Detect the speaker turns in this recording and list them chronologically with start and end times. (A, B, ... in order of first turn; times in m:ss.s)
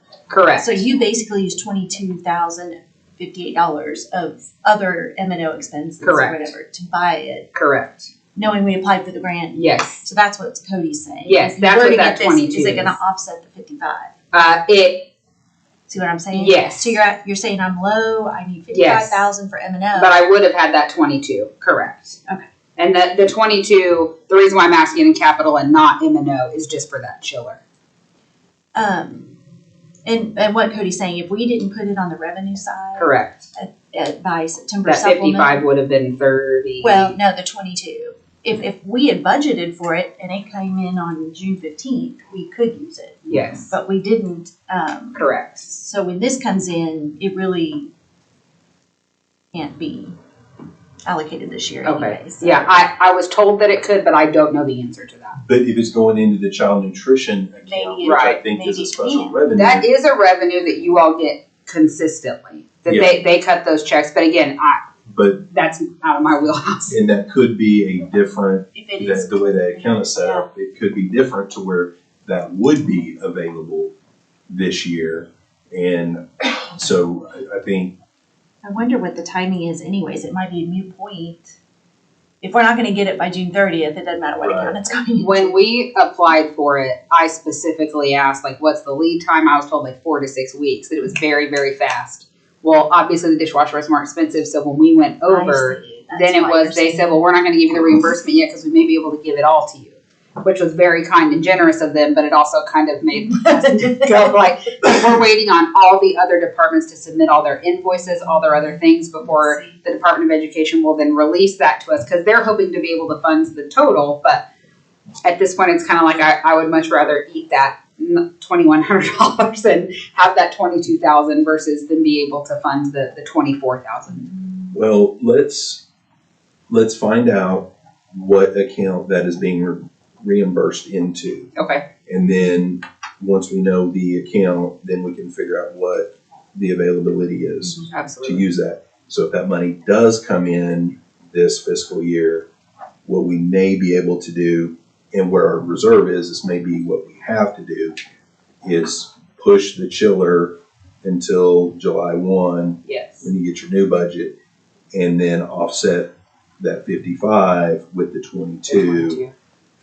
0:00.3-0:00.8 A
0:00.6-0:07.5 B
0:06.0-0:06.5 A
0:07.5-0:08.1 A
0:08.4-0:14.2 B
0:09.5-0:10.1 A
0:11.2-0:13.0 A
0:14.3-0:15.1 A
0:15.9-0:20.2 B
0:16.3-0:17.0 A
0:18.7-0:19.2 A
0:20.0-0:22.2 A
0:22.8-0:27.6 A
0:28.8-0:29.4 B
0:30.1-0:35.6 B
0:33.0-0:33.5 A
0:34.8-0:37.2 A
0:36.8-0:47.9 B
0:43.3-0:43.7 A
0:45.2-0:45.7 A
0:49.5-0:50.1 B
0:51.1-0:52.9 B
0:51.8-0:55.4 A
0:55.4-0:59.9 C
0:57.6-0:59.4 B
0:58.0-0:58.4 A
0:59.6-1:04.8 A
1:02.9-1:03.2 C
1:05.1-1:05.5 C
1:05.5-1:07.0 A
1:06.9-1:13.9 C
1:08.8-1:10.5 B
1:14.5-1:18.0 C
1:18.6-1:21.6 B
1:22.4-1:25.5 B
1:24.4-1:24.8 C
1:25.2-1:54.4 A
1:35.2-1:37.2 B
1:43.1-1:44.4 B
1:49.2-1:49.8 B
1:55.2-2:04.3 A
2:04.7-2:05.8 C
2:06.7-2:11.5 C
2:11.6-2:11.9 A
2:12.1-2:22.5 C
2:17.9-2:18.5 A
2:23.1-2:28.0 C
2:28.6-2:34.3 C
2:32.9-2:33.3 A
2:34.9-2:39.2 C
2:38.7-2:39.3 A